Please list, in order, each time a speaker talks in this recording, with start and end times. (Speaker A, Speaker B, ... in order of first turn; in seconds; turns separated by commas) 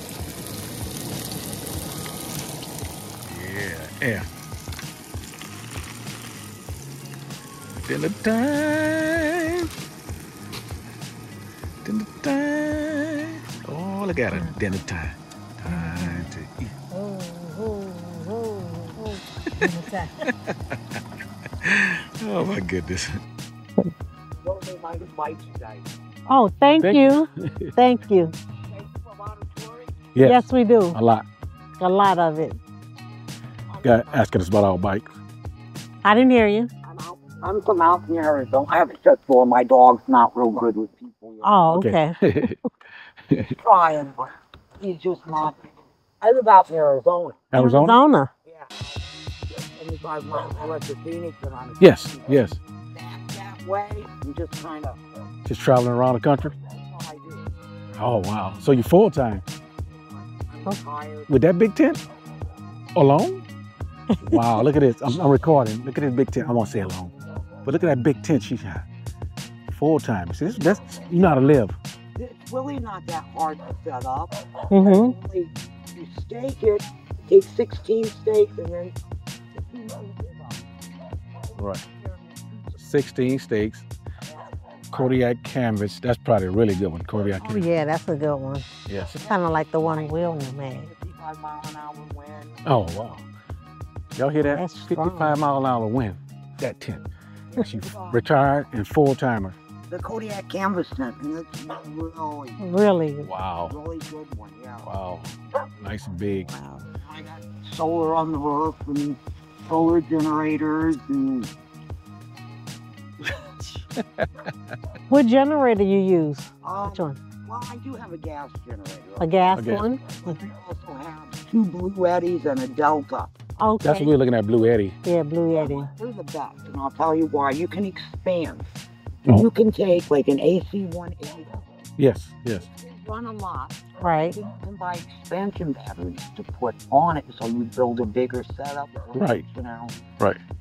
Speaker A: 3.3-4.3, Speaker A: 7.8-9.7, Speaker A: 11.8-16.5, Speaker B: 15.7-16.3, Speaker B: 16.9-20.2, Speaker A: 21.6-23.1, Speaker C: 24.4-25.9, Speaker B: 26.3-28.4, Speaker A: 26.8-27.7, Speaker C: 28.7-30.1, Speaker A: 30.1-31.3, Speaker B: 30.2-31.0, Speaker B: 31.8-32.6, Speaker C: 33.7-34.2, Speaker A: 33.8-35.1, Speaker B: 36.0-36.7, Speaker C: 36.9-41.6, Speaker B: 41.4-42.2, Speaker A: 41.7-42.6, Speaker C: 43.6-45.7, Speaker C: 46.2-47.4, Speaker A: 47.5-48.0, Speaker B: 47.5-48.3, Speaker C: 48.5-52.3, Speaker A: 51.8-52.6, Speaker C: 52.9-55.0, Speaker A: 55.5-56.5, Speaker C: 56.7-57.5, Speaker A: 58.0-59.4, Speaker C: 59.9-61.4, Speaker A: 61.3-62.0, Speaker A: 63.0-63.4, Speaker B: 64.1-64.6, Speaker A: 64.2-67.1, Speaker A: 67.7-68.8, Speaker A: 69.7-71.8, Speaker C: 71.1-71.5, Speaker C: 72.2-79.0, Speaker B: 74.7-75.2, Speaker C: 79.5-80.7, Speaker A: 81.6-81.8, Speaker C: 81.8-82.7, Speaker A: 82.8-83.8, Speaker C: 84.3-85.1, Speaker A: 84.9-87.7, Speaker C: 87.2-87.7, Speaker B: 87.4-88.7, Speaker A: 88.9-89.2, Speaker C: 89.1-92.6, Speaker B: 89.3-90.9, Speaker A: 92.7-93.3, Speaker A: 94.2-97.0, Speaker B: 94.4-95.4, Speaker C: 97.5-98.2, Speaker A: 97.6-99.6, Speaker C: 99.9-102.6, Speaker B: 102.6-103.3, Speaker A: 103.2-103.8, Speaker C: 103.7-104.9, Speaker A: 104.8-106.5, Speaker B: 106.6-106.8, Speaker C: 107.0-111.5, Speaker B: 115.1-117.2, Speaker C: 116.6-123.3, Speaker B: 119.2-120.4, Speaker A: 119.5-119.8, Speaker B: 123.6-124.1, Speaker A: 123.8-125.0, Speaker B: 125.0-125.9, Speaker C: 125.6-128.7, Speaker C: 129.3-131.7, Speaker A: 132.0-132.6, Speaker C: 132.7-140.0, Speaker B: 134.0-134.4, Speaker A: 139.2-139.4